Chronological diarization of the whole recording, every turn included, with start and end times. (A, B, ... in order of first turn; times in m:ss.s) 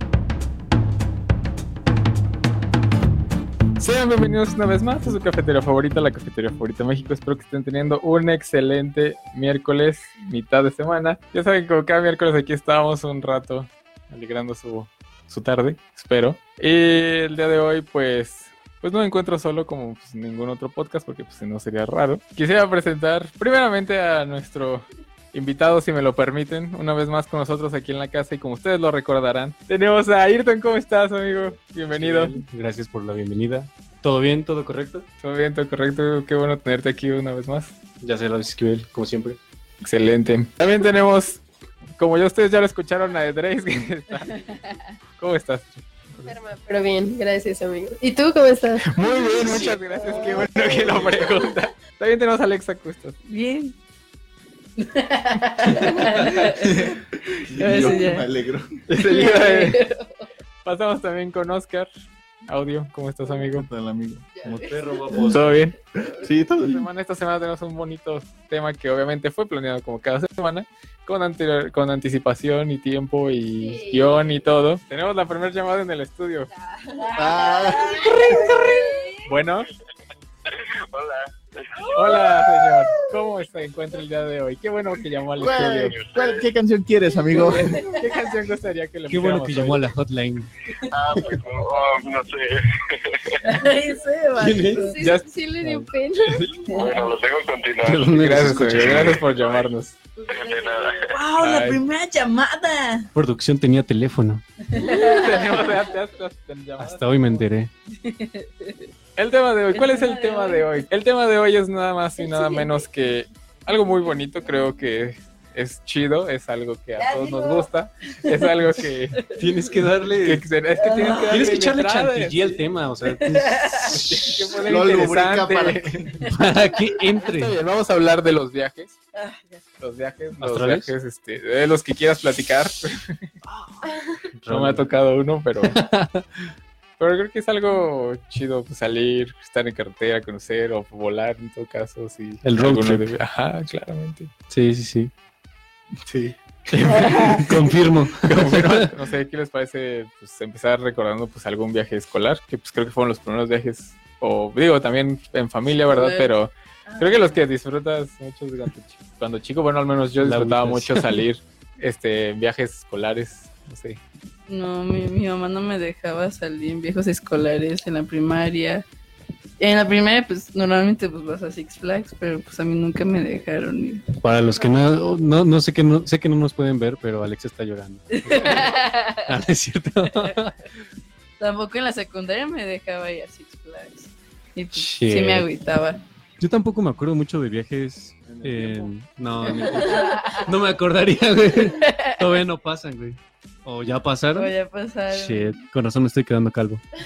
0:03.8-0:32.4 A
0:31.9-0:35.1 B
0:35.2-0:37.8 A
0:38.0-0:39.4 B
0:39.8-0:41.4 A
0:42.0-0:44.4 A
0:44.3-0:44.6 C
0:45.2-0:46.3 A
0:46.2-0:50.5 D
0:48.8-0:53.2 A
0:49.5-0:50.4 C
0:53.3-0:53.8 C
0:54.8-0:57.0 C
0:56.5-0:58.7 E
0:57.6-0:58.3 C
0:58.9-0:59.8 A
0:59.0-1:00.0 C
1:00.6-1:01.9 A
1:02.4-1:03.7 A
1:03.4-1:04.3 E
1:04.4-1:05.0 D
1:04.4-1:05.6 B
1:05.1-1:05.4 E
1:05.2-1:05.8 A
1:06.0-1:06.8 E
1:06.6-1:16.5 A
1:13.5-1:14.3 D
1:16.7-1:17.2 D
1:17.0-1:19.2 C
1:17.2-1:17.9 E
1:17.9-1:19.2 D
1:19.2-1:19.7 A
1:20.5-1:22.4 F
1:22.0-1:26.0 A
1:25.4-1:28.0 E
1:25.6-1:26.5 F
1:27.3-1:28.0 C
1:27.5-1:29.9 A
1:29.1-1:30.5 B
1:30.9-1:31.4 E
1:31.0-1:33.4 F
1:33.4-1:35.0 C
1:34.4-1:34.9 B
1:34.8-1:36.7 D
1:35.0-1:36.5 A
1:36.7-1:39.7 F
1:36.7-1:37.1 C
1:37.8-1:39.2 B
1:38.1-1:40.0 A
1:40.3-1:41.2 F
1:40.3-1:40.6 D
1:41.1-1:43.1 C
1:41.4-1:41.8 A
1:43.1-1:44.4 B
1:44.6-1:45.8 C
1:44.8-1:47.4 A
1:46.8-1:47.7 B
1:47.9-1:48.9 C
1:49.2-1:59.2 A
1:49.7-1:50.8 C
1:52.2-1:52.9 C
1:57.0-1:57.7 C
1:58.2-1:58.6 C
1:59.1-1:59.5 C
1:59.4-2:00.5 B
2:00.2-2:02.4 A
2:00.8-2:01.6 C
2:01.3-2:04.3 B
2:03.2-2:04.0 C
2:03.9-2:06.1 A
2:04.6-2:06.3 E
2:06.3-2:07.6 B
2:07.3-2:09.0 A
2:09.1-2:09.6 C
2:09.8-2:13.2 A
2:10.4-2:10.9 B
2:13.4-2:14.9 B
2:14.5-2:15.8 A
2:15.6-2:16.4 B
2:17.0-2:24.3 A
2:22.4-2:23.1 B
2:24.5-2:25.1 B
2:26.0-2:26.4 E
2:26.7-2:44.0 A
2:27.0-2:28.9 B
2:35.8-2:36.3 C
2:36.9-2:37.4 C
2:40.2-2:41.2 B
2:44.5-2:48.9 C
2:49.6-2:54.7 C
2:54.2-2:58.7 B
2:58.1-2:59.3 C
2:59.2-3:00.6 B
3:01.4-3:06.0 C
3:04.8-3:05.5 B
3:06.4-3:14.5 B
3:08.3-3:08.9 E
3:09.4-3:10.5 C
3:11.6-3:12.2 C
3:14.3-3:15.6 C
3:15.1-3:16.8 B